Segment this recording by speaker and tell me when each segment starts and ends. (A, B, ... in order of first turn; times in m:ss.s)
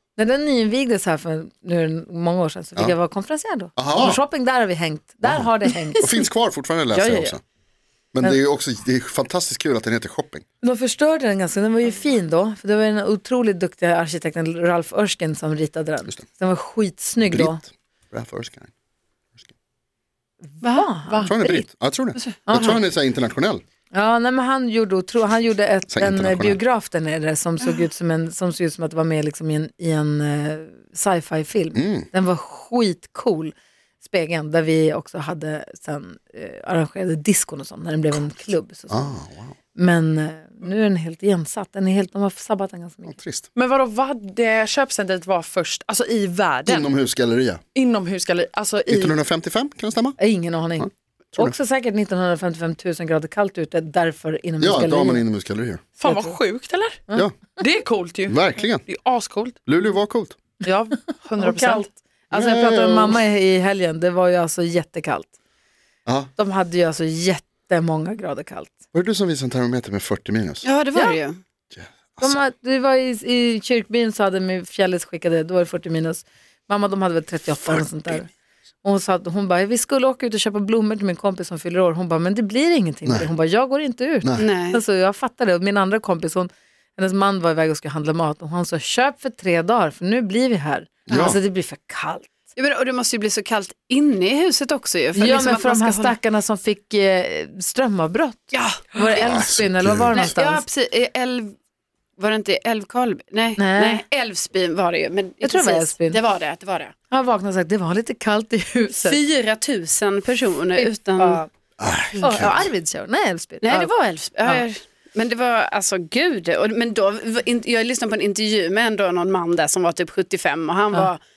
0:00.2-0:06.1 A
0:03.8-0:04.2 B
0:06.0-0:07.4 B
0:06.9-0:07.3 A
0:08.1-0:10.4 B
0:10.6-0:17.6 A
0:17.2-0:18.7 B
0:20.4-0:21.4 A
0:20.6-0:20.9 C
0:21.1-0:21.5 D
0:21.2-0:23.6 B
0:22.5-0:22.8 A
0:23.9-0:39.1 A
0:25.9-0:26.6 B
0:31.7-0:32.1 B
0:38.9-0:39.5 B
0:39.7-0:43.1 A
0:43.1-0:43.5 B
0:43.6-0:46.9 D
0:46.6-0:47.6 B
0:47.7-0:49.2 D
0:48.9-0:50.2 B
0:50.2-0:55.2 A
0:50.8-0:51.5 B
0:54.6-0:55.8 B
0:56.0-0:57.0 D
0:56.0-0:56.4 A
0:57.6-0:59.6 D
0:58.2-0:58.8 B
0:59.6-1:00.4 B
1:00.6-1:01.9 D
1:01.4-1:05.3 A
1:02.3-1:03.2 B
1:06.4-1:08.7 A
1:08.9-1:10.6 B
1:10.6-1:11.3 C
1:11.7-1:12.4 B
1:12.2-1:18.3 A
1:18.8-1:32.3 A
1:24.4-1:24.8 C
1:31.1-1:31.4 B
1:32.6-1:36.1 C
1:35.1-1:40.6 A
1:38.5-1:39.4 C
1:39.2-1:40.3 B
1:40.1-1:41.5 C
1:42.2-1:46.9 C
1:43.6-1:44.0 A
1:45.4-1:46.2 A
1:47.1-1:49.2 A
1:48.9-1:51.4 C
1:50.7-1:51.5 A
1:51.8-1:52.6 B
1:52.2-1:54.6 A
1:53.6-2:01.2 C